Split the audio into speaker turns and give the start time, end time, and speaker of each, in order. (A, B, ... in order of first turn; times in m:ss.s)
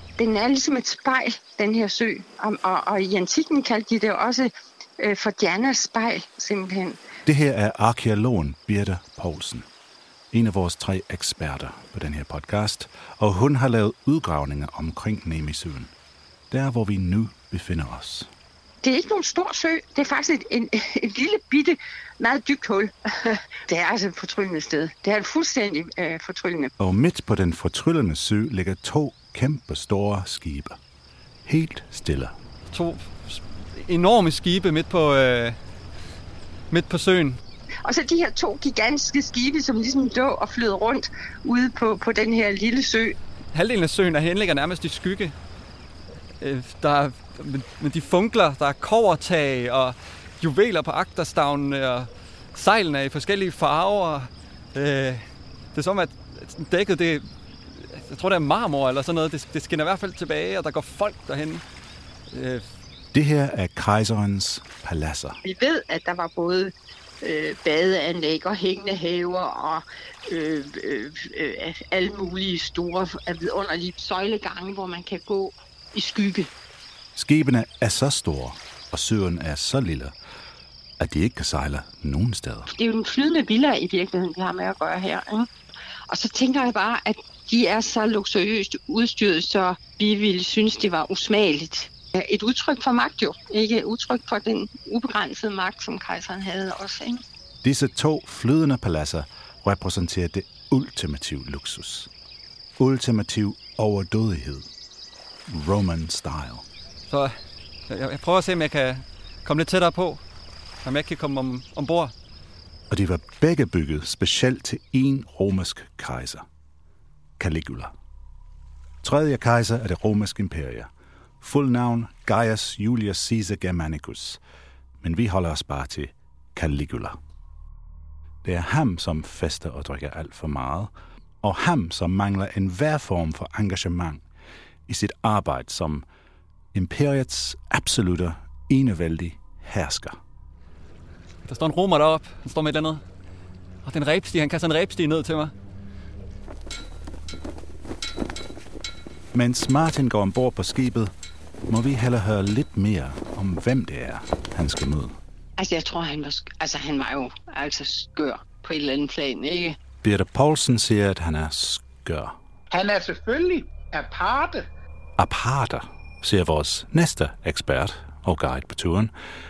0:00.2-0:07.0 A
0:07.2-0:09.7 B
0:10.3-0:15.9 B
0:16.5-0:18.3 B
0:18.8-0:26.7 A
0:26.8-0:30.8 B
0:31.5-0:32.4 B
0:32.7-0:35.6 C
0:36.7-0:37.4 C
0:37.8-0:43.2 A
0:43.5-0:45.4 C
0:46.4-1:01.6 C
1:02.3-1:02.7 C
1:03.1-1:05.4 B
1:05.4-1:16.5 A
1:17.2-1:20.1 B
1:21.0-1:22.7 B
1:22.7-1:25.5 A
1:26.1-1:37.2 A
1:37.6-1:42.1 B
1:42.8-1:44.7 B
1:45.5-1:46.7 B
1:47.1-1:47.4 C
1:47.9-1:50.2 C
1:50.8-1:52.1 C
1:52.9-1:56.4 B
1:57.4-1:57.9 B
1:59.0-2:00.9 B
2:01.4-2:04.4 B
2:05.0-2:07.2 B
2:08.4-2:14.2 B
2:14.9-2:16.0 B
2:16.7-2:20.2 B
2:21.4-2:23.0 C
2:23.8-2:25.5 C
2:29.3-2:31.1 B
2:31.7-2:35.2 B
2:35.6-2:39.8 A
2:40.0-2:42.4 B
2:42.7-2:44.7 D
2:45.2-2:49.1 B